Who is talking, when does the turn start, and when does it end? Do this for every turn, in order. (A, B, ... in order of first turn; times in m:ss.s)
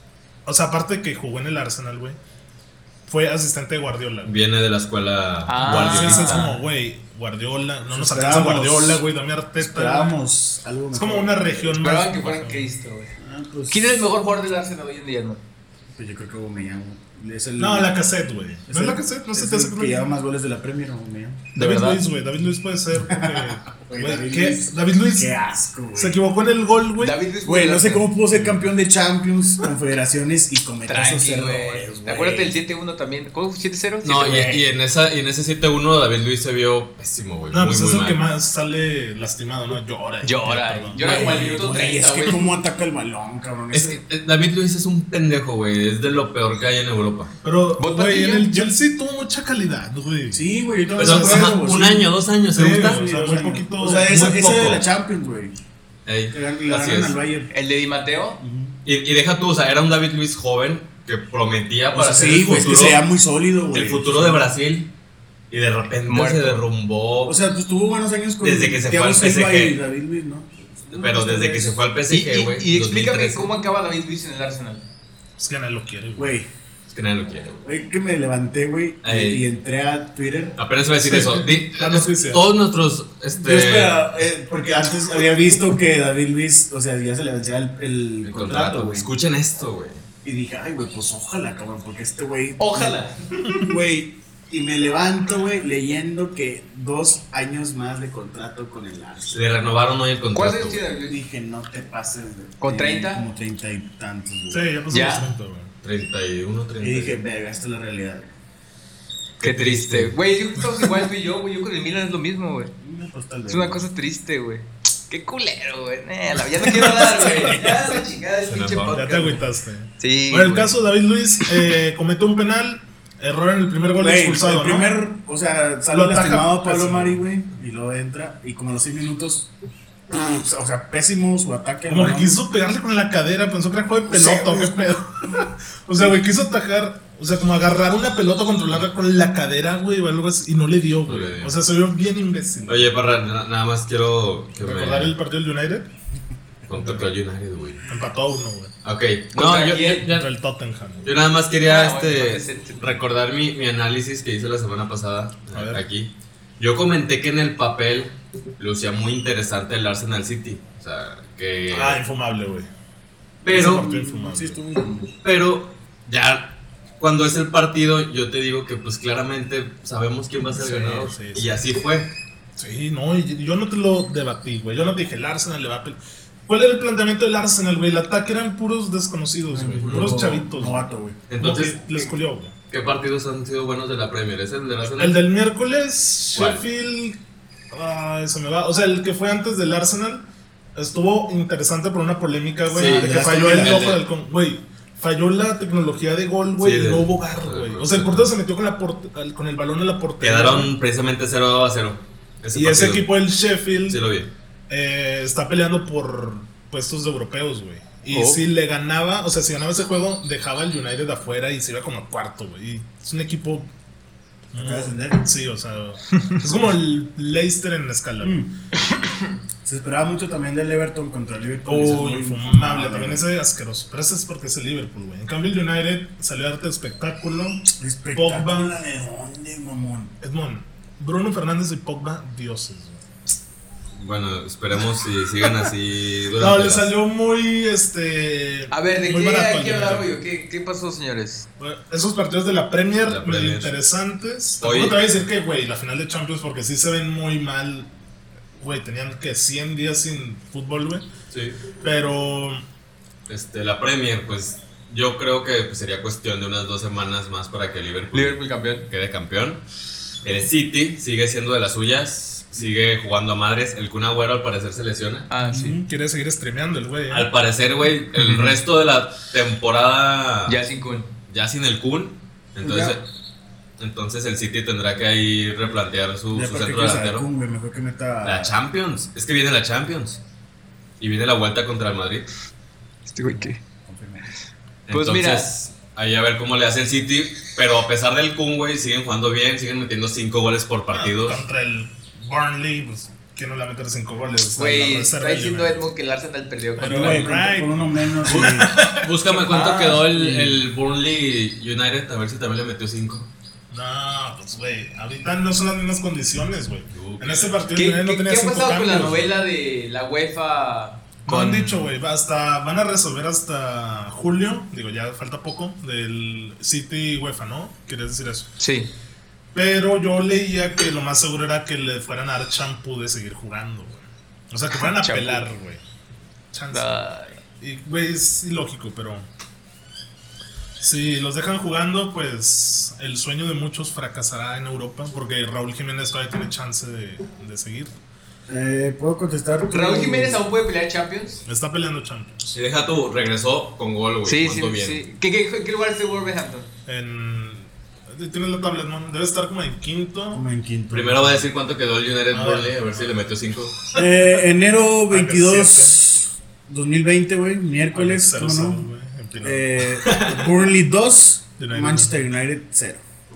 0:00.4-0:02.2 A
0:03.1-0:04.4 A
0:04.2-0:06.6 B
0:05.5-0:06.5 C
0:05.6-0:10.2 A
0:07.9-0:09.0 D
0:09.6-0:11.8 D
0:10.9-0:12.7 A
0:11.8-0:13.2 C
0:13.2-0:14.1 D
0:13.7-0:15.4 C
0:15.9-0:17.9 D
0:17.6-0:20.0 A
0:18.7-0:21.5 D
0:21.6-0:22.0 C
0:21.6-0:25.3 A
0:23.0-0:26.2 D
0:26.0-0:27.2 A
0:27.0-0:28.1 C
0:27.4-0:32.5 D
0:28.3-0:28.7 A
0:30.9-0:34.6 C
0:34.0-0:38.2 B
0:34.2-0:34.6 D
0:37.5-0:41.6 A
0:40.2-0:42.4 C
0:41.0-0:44.0 D
0:43.7-0:47.3 B
0:47.4-0:50.4 A
0:47.8-0:48.5 C
0:50.3-0:55.6 D
0:51.0-0:53.0 B
0:51.0-0:51.5 A
0:52.5-0:54.6 A
0:54.0-0:54.8 B
0:56.1-0:57.2 B
0:56.3-0:57.5 D
0:57.5-0:58.4 C
0:58.4-0:58.8 D
0:58.8-1:03.0 B
1:01.9-1:04.5 D
1:03.7-1:04.9 B
1:05.5-1:07.4 B
1:06.1-1:06.6 C
1:07.2-1:11.8 D
1:08.4-1:09.8 B
1:10.9-1:13.5 B
1:12.1-1:14.9 C
1:15.4-1:16.4 A
1:16.2-1:16.5 D
1:16.9-1:17.6 B
1:17.6-1:20.6 D
1:19.0-1:19.4 B
1:20.6-1:24.1 B
1:21.0-1:22.4 A
1:23.3-1:29.1 D
1:28.2-1:30.0 B
1:30.2-1:33.0 D
1:32.6-1:33.7 C
1:33.6-1:39.5 D
1:39.3-1:40.9 B
1:40.4-1:41.2 C
1:41.1-1:44.6 D
1:42.6-1:43.2 C
1:44.5-1:45.7 A
1:44.9-1:45.3 C
1:45.8-1:47.2 B
1:46.8-1:48.3 D
1:49.4-1:50.2 B
1:49.4-1:52.7 C
1:52.8-1:53.9 D
1:53.5-1:59.5 C
1:56.7-1:57.8 A
1:58.4-1:59.0 B
1:58.9-2:04.9 A
2:00.0-2:00.7 C
2:04.0-2:09.5 D
2:05.9-2:07.2 A
2:10.1-2:12.4 D
2:11.9-2:23.0 A
2:14.1-2:15.0 D
2:21.0-2:21.6 B
2:22.7-2:25.2 B
2:24.6-2:25.9 A
2:26.7-2:27.8 B
2:26.7-2:27.1 A
2:27.9-2:28.7 A
2:28.8-2:30.3 B
2:29.3-2:30.1 C
2:30.1-2:31.3 A
2:31.0-2:42.0 B
2:31.6-2:33.0 C
2:35.5-2:35.8 A
2:41.7-2:42.7 A
2:43.4-2:43.8 B
2:43.4-2:45.1 D
2:43.5-2:44.6 A
2:45.2-2:52.1 B
2:50.5-2:51.6 A
2:52.6-3:00.8 A
2:59.5-3:01.2 D
2:59.8-3:00.3 B
3:01.3-3:02.0 B
3:01.4-3:02.5 A
3:02.7-3:05.2 B
3:05.0-3:07.2 A
3:06.4-3:06.6 B
3:07.7-3:20.7 A
3:12.7-3:14.0 B
3:12.7-3:13.9 D
3:16.6-3:18.3 B
3:20.2-3:23.1 B
3:22.5-3:24.0 A
3:23.9-3:24.3 B
3:24.7-3:33.7 A
3:28.1-3:28.4 C
3:34.5-3:38.5 A
3:34.6-3:35.3 D
3:38.2-3:38.5 D
3:39.6-3:43.2 D
3:41.6-3:48.8 A
3:47.8-3:50.1 D
3:50.2-3:53.0 A
3:54.0-3:56.9 B
3:56.4-4:00.1 A
3:58.7-4:01.5 C
4:01.6-4:07.9 A
4:03.0-4:03.8 B
4:04.6-4:05.0 B
4:08.6-4:11.1 A
4:11.3-4:11.6 B
4:11.8-4:12.6 A
4:13.3-4:19.6 B
4:18.1-4:18.9 C
4:20.2-4:25.3 B
4:25.3-4:25.8 C
4:25.5-4:25.8 D
4:25.7-4:27.3 A
4:27.1-4:30.6 B
4:30.5-4:31.1 C
4:31.3-4:33.1 B
4:32.6-4:33.0 D
4:33.8-4:37.3 B
4:36.3-4:38.6 D
4:38.2-4:40.2 B
4:41.0-4:42.3 B
4:43.1-4:43.6 C
4:43.2-4:44.3 D
4:44.9-4:51.4 B
4:44.9-4:45.5 C
4:50.9-4:55.8 A
4:54.6-4:57.3 C
4:56.8-4:59.9 A
4:56.8-4:58.8 D
4:58.9-5:03.3 B
4:59.5-5:00.0 C
5:00.1-5:00.6 D
5:03.7-5:09.3 A
5:06.9-5:07.7 B
5:07.8-5:11.9 C
5:11.3-5:18.5 A
5:18.6-5:18.9 C
5:19.5-5:25.8 A
5:24.7-5:25.5 C
5:26.5-5:27.0 A
5:26.7-5:27.4 C
5:27.6-5:29.3 A
5:30.8-5:37.9 A
5:38.5-5:40.4 D
5:39.7-5:41.4 C
5:41.4-5:42.6 A
5:42.5-5:45.0 B
5:44.2-5:46.7 C
5:46.9-5:50.4 A
5:50.3-5:51.5 D
5:50.9-5:53.8 B
5:52.3-5:53.2 A
5:53.9-5:58.9 D
5:55.1-5:56.0 A
5:57.9-6:00.2 A
5:59.4-6:03.0 D
6:00.0-6:00.4 B
6:01.6-6:02.2 A